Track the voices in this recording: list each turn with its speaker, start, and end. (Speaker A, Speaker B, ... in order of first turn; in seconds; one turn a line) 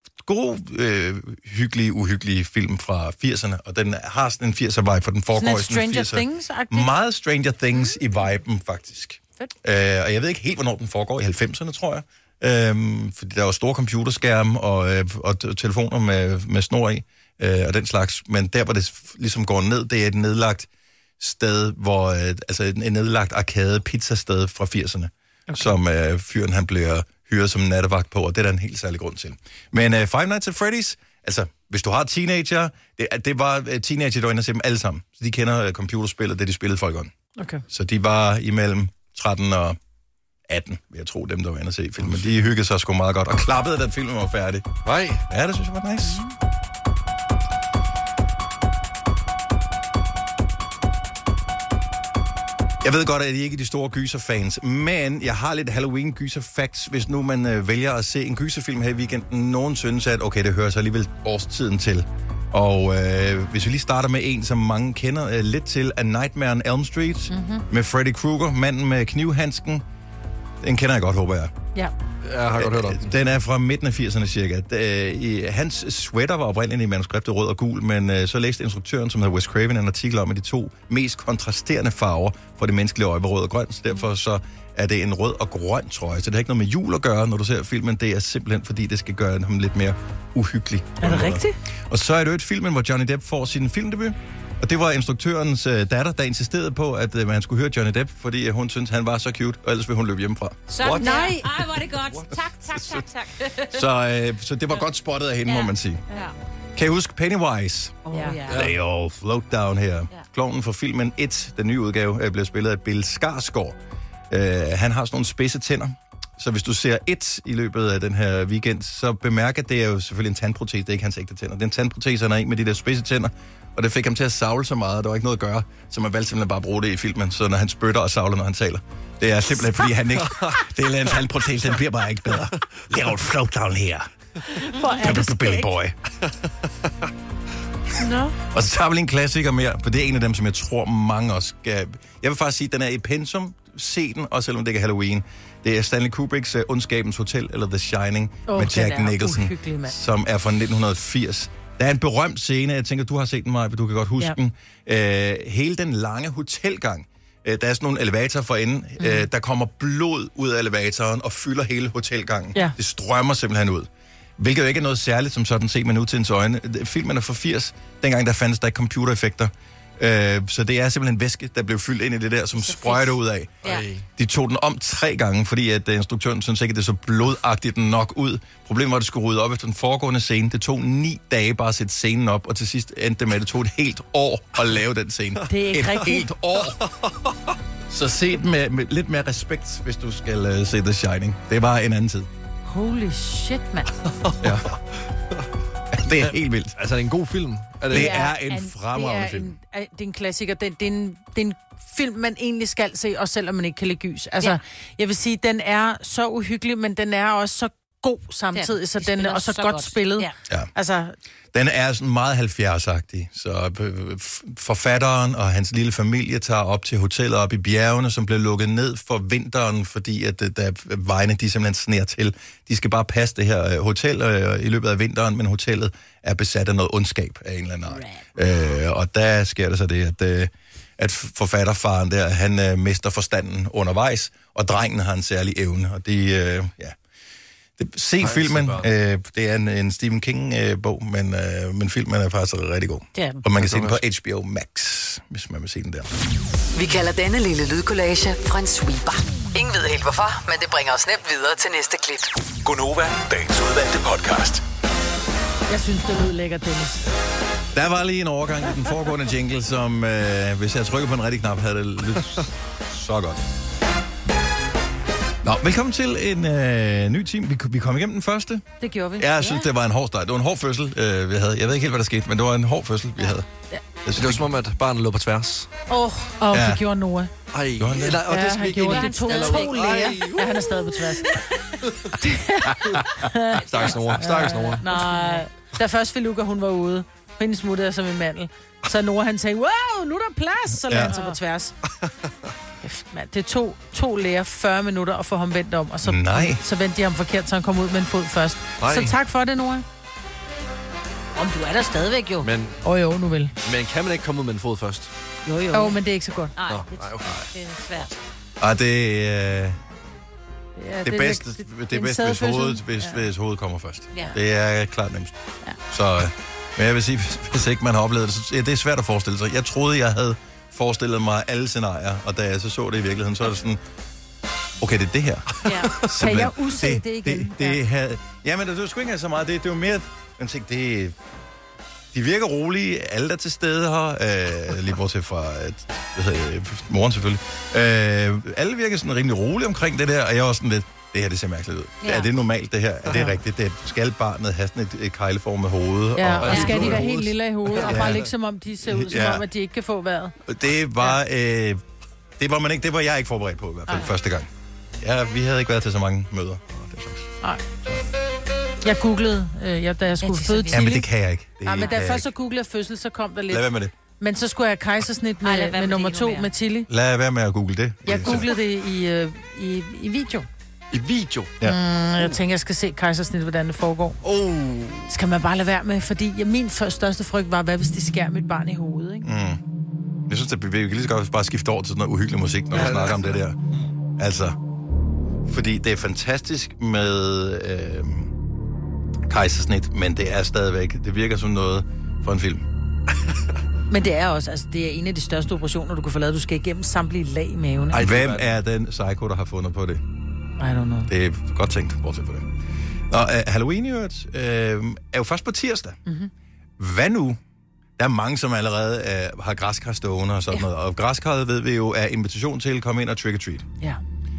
Speaker A: 0.2-20.7
Speaker B: 5.3-6.9
Speaker A: 21.2-37.1
Speaker B: 37.4-37.6
Speaker A: 37.7-39.8
Speaker A: 40.5-44.8
Speaker C: 42.0-42.4
Speaker C: 44.8-45.2
Speaker A: 45.3-46.2
Speaker A: 52.8-69.8
Speaker B: 67.3-67.6
Speaker A: 70.6-71.5
Speaker C: 72.2-73.1
Speaker A: 72.5-100.6
Speaker B: 91.0-91.5
Speaker D: 100.7-103.8
Speaker C: 100.8-102.3
Speaker B: 101.0-101.5
Speaker A: 103.7-106.0
Speaker D: 105.4-106.3
Speaker A: 106.8-113.8
Speaker B: 108.1-108.4
Speaker D: 108.1-108.6
Speaker C: 108.5-108.7
Speaker A: 114.3-134.1
Speaker C: 130.2-130.6
Speaker B: 134.7-135.6
Speaker D: 134.8-135.4
Speaker A: 134.8-135.9
Speaker B: 138.0-138.3
Speaker A: 138.5-173.6
Speaker B: 148.5-149.9
Speaker B: 159.0-159.2
Speaker D: 172.6-173.1
Speaker C: 173.6-174.1
Speaker A: 174.2-186.8
Speaker B: 185.5-186.3
Speaker C: 186.7-187.4
Speaker A: 187.9-192.3
Speaker B: 192.7-193.9
Speaker C: 194.1-194.6
Speaker A: 194.4-194.7
Speaker A: 195.9-196.8
Speaker C: 196.1-198.2
Speaker A: 197.9-199.5
Speaker B: 197.9-211.1
Speaker D: 208.5-210.3
Speaker A: 211.5-236.9
Speaker D: 227.9-228.4
Speaker A: 237.8-246.1
Speaker C: 238.2-238.9
Speaker D: 243.1-243.4
Speaker C: 243.6-244.0
Speaker E: 246.7-252.3
Speaker F: 252.6-254.6
Speaker B: 255.7-257.1
Speaker A: 257.7-263.4
Speaker A: 265.4-268.6
Speaker B: 268.8-269.6
Speaker A: 269.2-273.5
Speaker A: 274.0-274.5
Speaker C: 274.1-275.7
Speaker B: 275.9-277.3
Speaker A: 276.5-276.8
Speaker C: 277.5-280.7
Speaker A: 277.8-278.2
Speaker B: 278.2-281.4
Speaker D: 278.8-280.3
Speaker D: 281.3-281.6
Speaker C: 281.9-282.1
Speaker B: 282.1-291.7
Speaker C: 283.6-284.8
Speaker D: 283.7-285.4
Speaker A: 290.7-291.1
Speaker B: 292.8-299.8
Speaker A: 296.0-296.6
Speaker C: 298.8-299.1
Speaker D: 301.4-302.5
Speaker C: 302.4-302.8
Speaker B: 302.8-303.5
Speaker C: 303.6-305.1
Speaker D: 305.4-306.0
Speaker B: 305.7-306.5
Speaker D: 306.6-308.1
Speaker C: 306.7-307.5
Speaker A: 308.6-309.8
Speaker B: 310.8-313.2
Speaker A: 311.0-315.3
Speaker A: 315.9-323.8
Speaker A: 324.8-331.1
Speaker D: 325.6-325.9
Speaker B: 326.1-327.8
Speaker A: 332.1-347.1
Speaker D: 342.0-342.3
Speaker B: 346.1-350.3
Speaker C: 346.3-348.2
Speaker D: 346.5-346.9
Speaker A: 347.7-348.3
Speaker A: 348.8-349.4
Speaker A: 350.4-351.8
Speaker A: 352.4-354.5
Speaker A: 355.0-357.3
Speaker B: 358.8-361.0
Speaker D: 360.2-361.0
Speaker A: 360.7-362.3
Speaker B: 361.6-363.7
Speaker A: 363.5-363.9
Speaker B: 364.2-366.9
Speaker D: 365.4-366.5
Speaker A: 366.9-368.5
Speaker B: 368.1-370.5
Speaker C: 370.9-371.5
Speaker B: 371.6-374.2
Speaker C: 374.2-375.1
Speaker B: 375.1-379.2
Speaker A: 379.2-379.6
Speaker A: 380.3-383.6
Speaker C: 382.7-383.4
Speaker A: 384.2-384.6
Speaker A: 385.4-388.3
Speaker A: 389.3-392.6
Speaker B: 393.9-398.1
Speaker C: 397.9-398.5
Speaker A: 397.9-400.0
Speaker B: 400.6-401.1
Speaker A: 401.1-402.5
Speaker A: 403.1-406.0
Speaker A: 406.8-407.4
Speaker A: 408.0-413.6